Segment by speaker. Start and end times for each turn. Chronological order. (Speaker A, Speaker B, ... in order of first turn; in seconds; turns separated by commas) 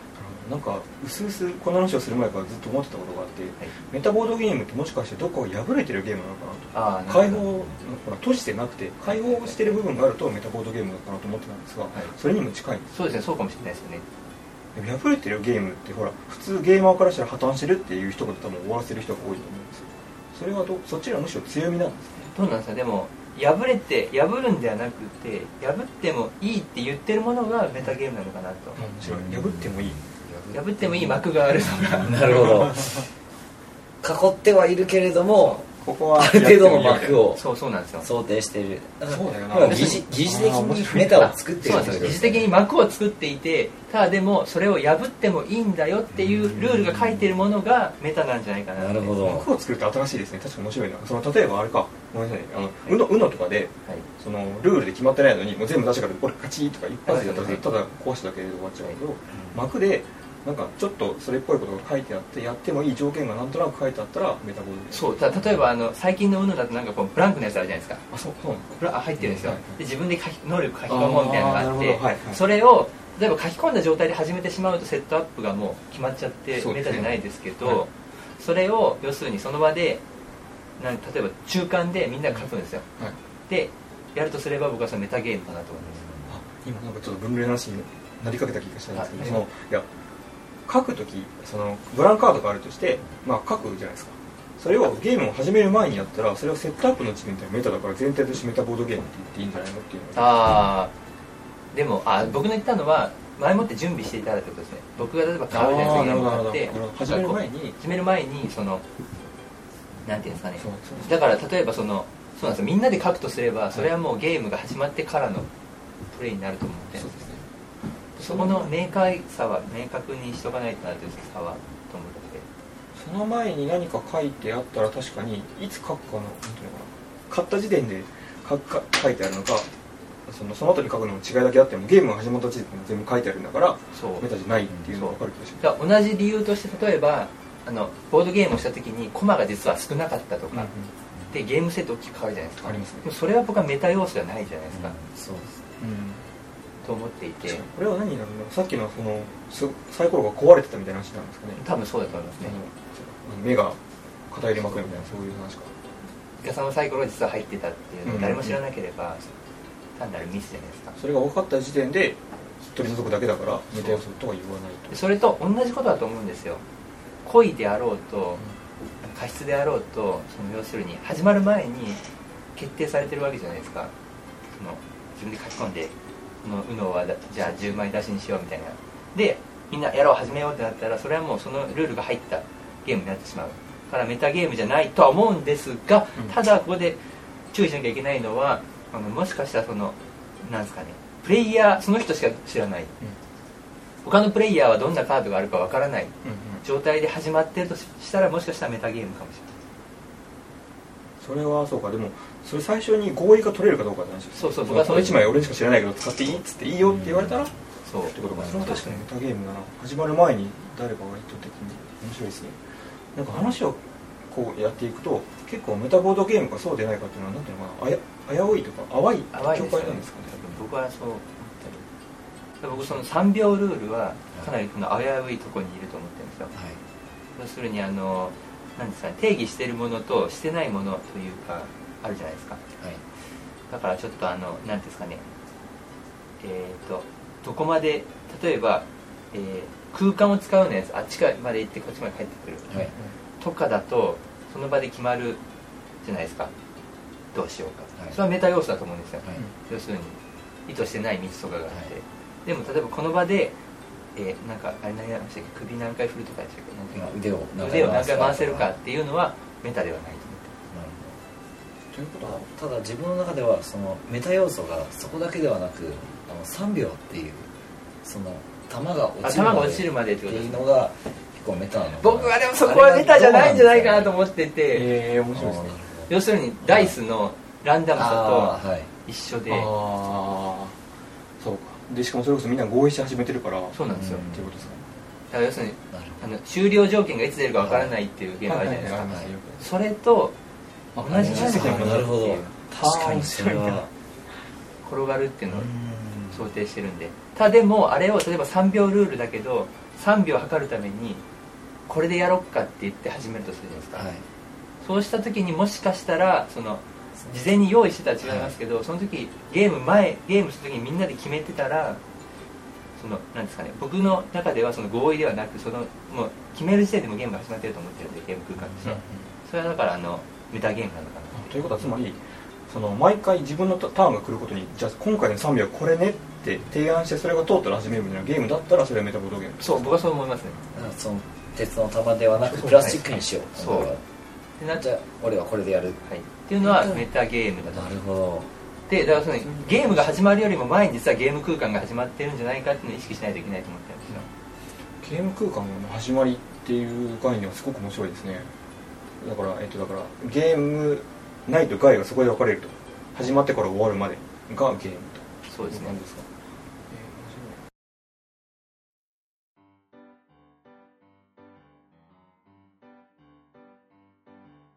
Speaker A: 0.1-12.9, Speaker B: 6.7-7.5, Speaker B: 9.1-9.8, Speaker B: 12.9-14.1, Speaker A: 14.8-22.3, Speaker B: 22.3-28.8, Speaker A: 28.8-30.2, Speaker C: 29.0-31.2, Speaker B: 30.5-32.5, Speaker C: 31.8-33.0, Speaker A: 32.4-33.0, Speaker C: 34.0-37.4, Speaker A: 35.4-37.2, Speaker B: 37.4-38.1, Speaker C: 38.0-42.5, Speaker A: 39.1-42.2, Speaker B: 39.6-40.0, Speaker B: 41.2-49.1, Speaker C: 46.1-47.3, Speaker C: 48.8-49.5, Speaker A: 49.2-65.1, Speaker B: 57.1-57.7, Speaker C: 59.3-59.6, Speaker B: 64.9-68.0, Speaker A: 68.1-69.8, Speaker B: 68.8-80.0, Speaker A: 70.9-72.4, Speaker A: 76.5-77.8, Speaker B: 80.8-82.8, Speaker B: 83.5-86.0, Speaker C: 86.0-86.3, Speaker A: 86.3-89.9, Speaker B: 89.0-89.4, Speaker A: 90.7-100.4, Speaker B: 100.2-100.9, Speaker B: 101.7-108.8, Speaker A: 105.5-107.8, Speaker B: 110.0-115.5, Speaker A: 110.6-111.2, Speaker B: 116.1-117.1, Speaker A: 117.0-117.4, Speaker A: 118.2-118.7, Speaker B: 118.2-122.5, Speaker A: 123.0-129.7, Speaker A: 130.3-135.6, Speaker B: 133.9-134.2, Speaker B: 134.9-140.7, Speaker A: 140.5-140.9, Speaker B: 141.3-145.0, Speaker A: 142.6-143.1, Speaker C: 144.7-145.6, Speaker A: 145.8-146.2, Speaker B: 146.8-147.6, Speaker A: 147.4-151.6, Speaker B: 151.6-152.6, Speaker A: 152.4-153.8, Speaker A: 154.3-155.7, Speaker B: 156.4-159.3, Speaker A: 158.1-158.6, Speaker B: 160.0-161.0, Speaker A: 161.0-165.0, Speaker B: 164.9-166.6, Speaker B: 167.2-168.4, Speaker B: 169.1-172.0, Speaker B: 172.6-173.9, Speaker B: 174.6-187.0, Speaker A: 177.4-177.8, Speaker B: 187.5-192.9, Speaker B: 194.0-196.1, Speaker A: 196.2-196.6, Speaker B: 196.6-199.5, Speaker A: 201.2-212.6, Speaker B: 204.4-205.2, Speaker C: 206.9-207.4, Speaker B: 207.8-209.0, Speaker C: 208.4-208.9, Speaker A: 213.2-220.4, Speaker B: 219.3-221.9, Speaker B: 222.6-226.5, Speaker C: 226.5-226.8, Speaker B: 227.4-232.6, Speaker B: 233.7-235.2, Speaker B: 236.4-242.7, Speaker B: 243.4-245.4, Speaker B: 246.0-246.5, Speaker B: 247.3-253.6, Speaker B: 254.2-260.6, Speaker C: 256.9-258.7, Speaker C: 260.7-261.2, Speaker A: 261.9-262.5, Speaker C: 262.2-267.5, Speaker C: 268.0-274.1, Speaker B: 269.2-270.6, Speaker B: 272.0-274.9, Speaker A: 274.7-275.8, Speaker C: 275.3-276.1, Speaker B: 276.1-279.7, Speaker C: 276.7-276.9, Speaker C: 277.9-278.9, Speaker A: 279.5-280.8, Speaker A: 281.4-284.8, Speaker B: 283.7-284.2, Speaker C: 283.9-284.7, Speaker B: 285.3-290.4, Speaker C: 285.9-286.2, Speaker C: 287.6-287.9, Speaker A: 288.4-289.7, Speaker A: 290.9-292.1, Speaker B: 291.0-293.8, Speaker C: 291.0-293.9, Speaker A: 293.0-293.7, Speaker B: 294.8-295.7, Speaker C: 295.5-296.4, Speaker B: 296.3-301.2, Speaker B: 301.9-304.1, Speaker C: 304.0-304.2, Speaker B: 304.8-312.0, Speaker C: 308.2-308.5, Speaker B: 313.0-321.4, Speaker A: 318.8-319.3, Speaker A: 321.3-330.0, Speaker B: 329.6-330.6, Speaker C: 330.7-334.0, Speaker A: 332.4-333.0, Speaker B: 332.7-333.0, Speaker B: 333.5-333.9, Speaker C: 334.7-336.0, Speaker B: 336.1-338.0, Speaker C: 336.6-337.1, Speaker C: 337.7-338.5, Speaker B: 338.9-344.3, Speaker A: 339.4-340.1, Speaker A: 345.0-348.5, Speaker A: 349.2-356.3, Speaker B: 355.5-356.0, Speaker A: 356.9-357.6